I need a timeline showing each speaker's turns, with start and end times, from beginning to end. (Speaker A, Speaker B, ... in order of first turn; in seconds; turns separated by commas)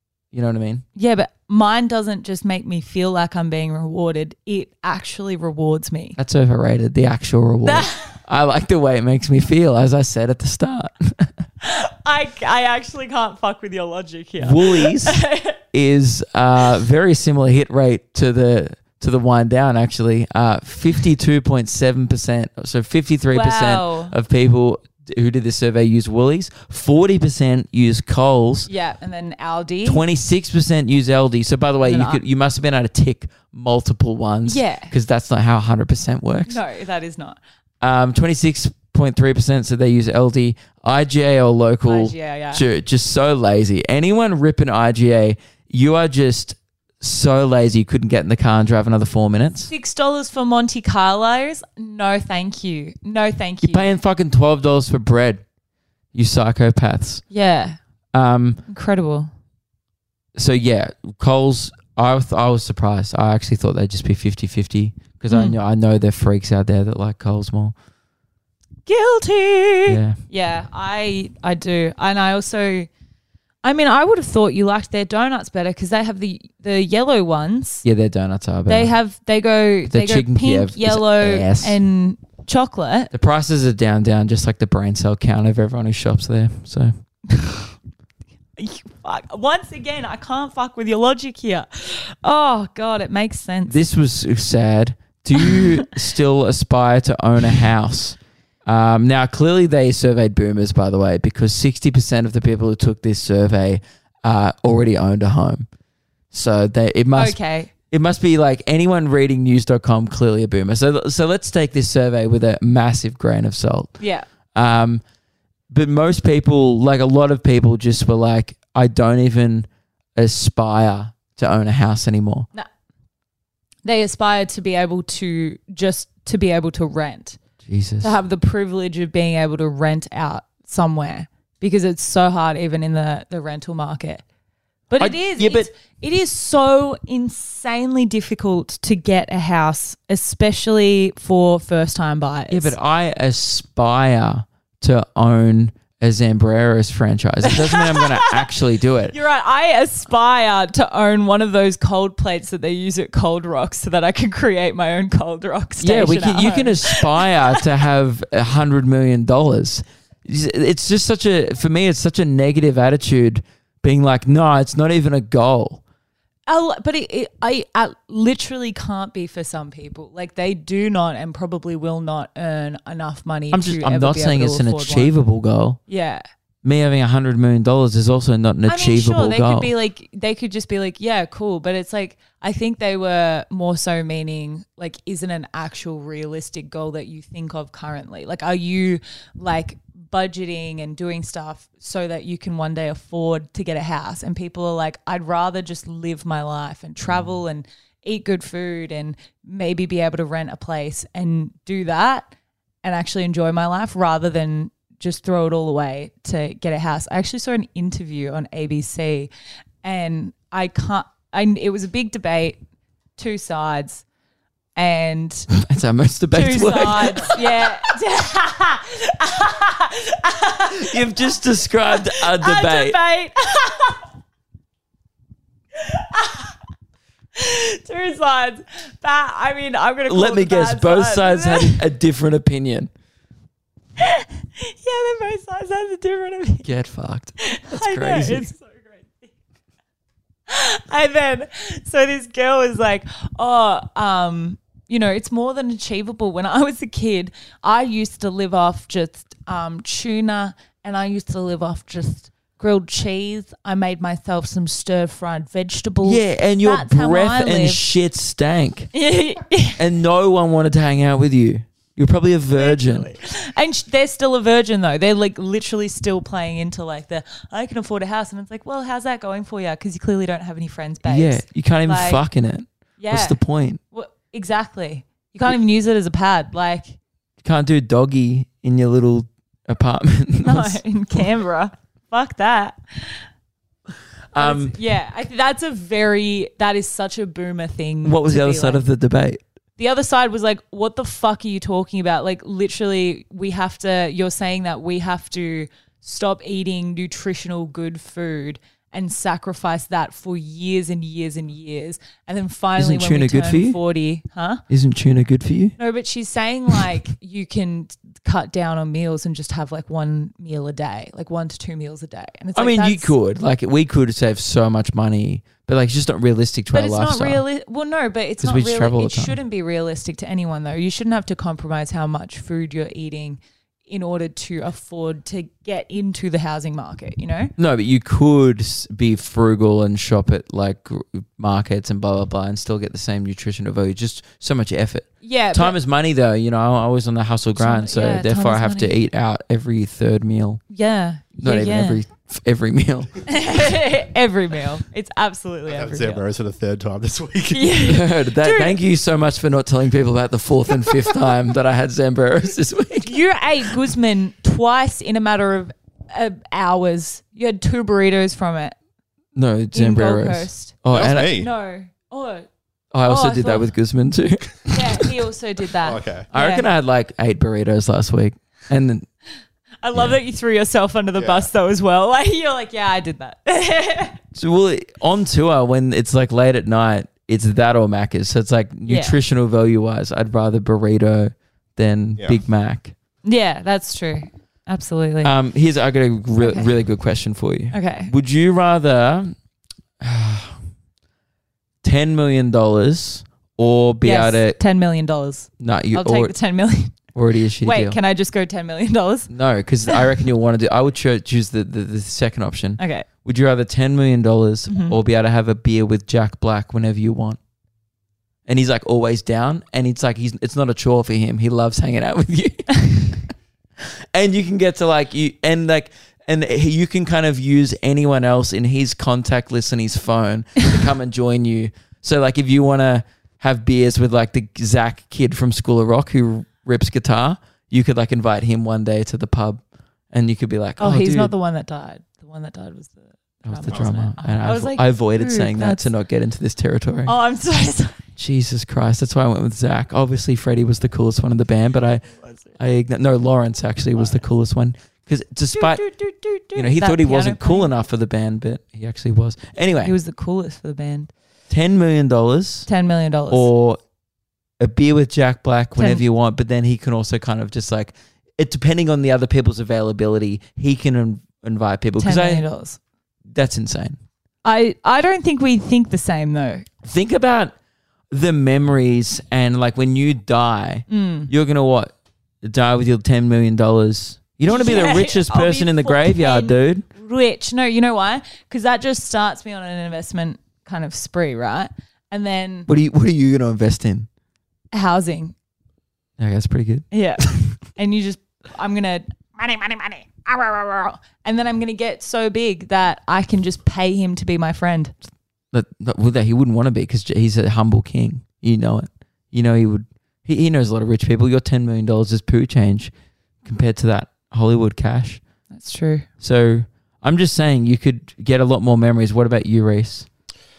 Speaker A: 0.3-0.8, Speaker B: 0.9-6.2, Speaker A: 6.2-11.3, Speaker B: 7.6-8.2, Speaker B: 11.6-15.6, Speaker A: 14.4-28.7, Speaker B: 23.3-24.1, Speaker B: 28.7-30.0, Speaker A: 29.8-36.6, Speaker B: 31.8-32.2, Speaker B: 34.5-34.9, Speaker B: 36.5-37.4, Speaker A: 37.8-49.7, Speaker B: 41.9-42.6, Speaker B: 49.7-53.9, Speaker A: 53.6-55.4, Speaker A: 56.1-57.2, Speaker B: 57.3-57.8, Speaker A: 58.1-58.6, Speaker B: 58.7-59.3, Speaker A: 60.4-67.7, Speaker B: 65.3-65.6, Speaker B: 68.9-72.9, Speaker A: 69.9-70.2, Speaker B: 73.6-77.8, Speaker A: 77.8-78.9, Speaker B: 78.7-83.1, Speaker A: 79.9-81.8, Speaker A: 83.1-86.9, Speaker B: 87.3-87.7, Speaker B: 88.6-93.8, Speaker A: 93.7-105.7, Speaker B: 95.4-95.8, Speaker A: 106.3-107.4, Speaker B: 107.1-107.7, Speaker A: 107.9-114.0, Speaker B: 114.0-114.3, Speaker A: 114.5-115.0, Speaker A: 115.7-122.5, Speaker B: 123.8-127.4, Speaker A: 127.6-128.1, Speaker B: 128.0-134.2, Speaker B: 134.9-142.7, Speaker A: 135.0-135.7, Speaker A: 142.5-149.1, Speaker B: 147.4-148.5, Speaker B: 149.1-157.7, Speaker A: 155.8-165.8, Speaker B: 166.5-175.1, Speaker A: 173.5-175.8, Speaker B: 175.9-176.2, Speaker A: 176.6-179.7, Speaker B: 178.7-202.3, Speaker B: 202.8-209.3, Speaker B: 209.8-212.6, Speaker B: 213.2-214.1, Speaker B: 214.8-215.5, Speaker A: 215.5-217.7, Speaker B: 216.3-221.2, Speaker A: 220.7-222.9, Speaker B: 221.9-224.0, Speaker B: 225.8-226.5, Speaker B: 227.3-231.8, Speaker A: 230.1-232.9, Speaker B: 234.0-236.7, Speaker A: 236.6-238.5, Speaker B: 237.4-239.3, Speaker B: 240.5-257.8, Speaker A: 256.0-258.9, Speaker B: 258.9-259.8, Speaker A: 259.8-263.1, Speaker B: 262.6-272.2, Speaker A: 271.1-273.8, Speaker B: 273.0-273.4, Speaker B: 273.9-276.9, Speaker A: 277.4-280.8, Speaker B: 280.4-283.2, Speaker A: 284.3-284.7, Speaker B: 284.4-288.9, Speaker A: 288.0-289.4, Speaker B: 289.8-304.6, Speaker A: 302.8-303.8, Speaker A: 304.7-305.7, Speaker B: 305.8-313.1, Speaker A: 312.6-317.4, Speaker B: 316.7-327.5, Speaker A: 318.4-319.4, Speaker A: 327.6-340.6, Speaker B: 335.2-335.8, Speaker B: 337.6-338.9, Speaker B: 340.7-342.0, Speaker A: 341.4-343.1, Speaker B: 343.2-346.2, Speaker C: 345.7-347.7, Speaker B: 347.5-348.8, Speaker A: 347.8-353.2, Speaker B: 353.0-358.7, Speaker A: 359.3-361.3, Speaker B: 359.7-362.5, Speaker C: 360.9-361.5, Speaker A: 362.9-365.1, Speaker B: 363.1-363.7, Speaker B: 364.7-366.7, Speaker C: 365.8-366.3, Speaker A: 366.3-369.1, Speaker B: 369.8-374.2, Speaker C: 371.2-371.5, Speaker A: 374.3-382.9, Speaker B: 378.9-379.2, Speaker B: 383.2-385.3, Speaker A: 385.2-389.4, Speaker B: 386.4-386.7, Speaker B: 387.7-388.1, Speaker A: 390.0-390.6, Speaker A: 391.8-394.6, Speaker B: 394.0-397.0, Speaker A: 395.6-396.3, Speaker A: 397.1-398.0, Speaker B: 397.6-399.3, Speaker A: 399.3-407.4, Speaker B: 402.8-403.1, Speaker B: 404.7-404.9, Speaker A: 408.4-429.6, Speaker A: 430.1-431.3, Speaker B: 430.8-435.9, Speaker A: 433.4-437.1, Speaker B: 437.1-438.0, Speaker A: 438.2-442.0, Speaker B: 442.3-442.5, Speaker A: 442.6-445.8, Speaker B: 445.5-447.7, Speaker A: 446.6-449.9, Speaker B: 449.8-451.1, Speaker A: 451.5-452.7, Speaker B: 452.7-453.5, Speaker A: 453.3-453.8, Speaker A: 454.6-462.4, Speaker B: 455.8-456.0, Speaker B: 462.0-462.8, Speaker A: 463.3-464.0, Speaker B: 464.4-466.7, Speaker A: 466.8-467.5, Speaker A: 468.1-476.9, Speaker B: 470.9-471.3, Speaker B: 474.5-482.7, Speaker A: 482.7-484.1, Speaker B: 484.7-485.3, Speaker A: 486.2-486.9, Speaker B: 486.9-494.9, Speaker A: 495.5-502.9, Speaker A: 503.4-505.2, Speaker B: 505.5-506.1, Speaker A: 506.2-510.1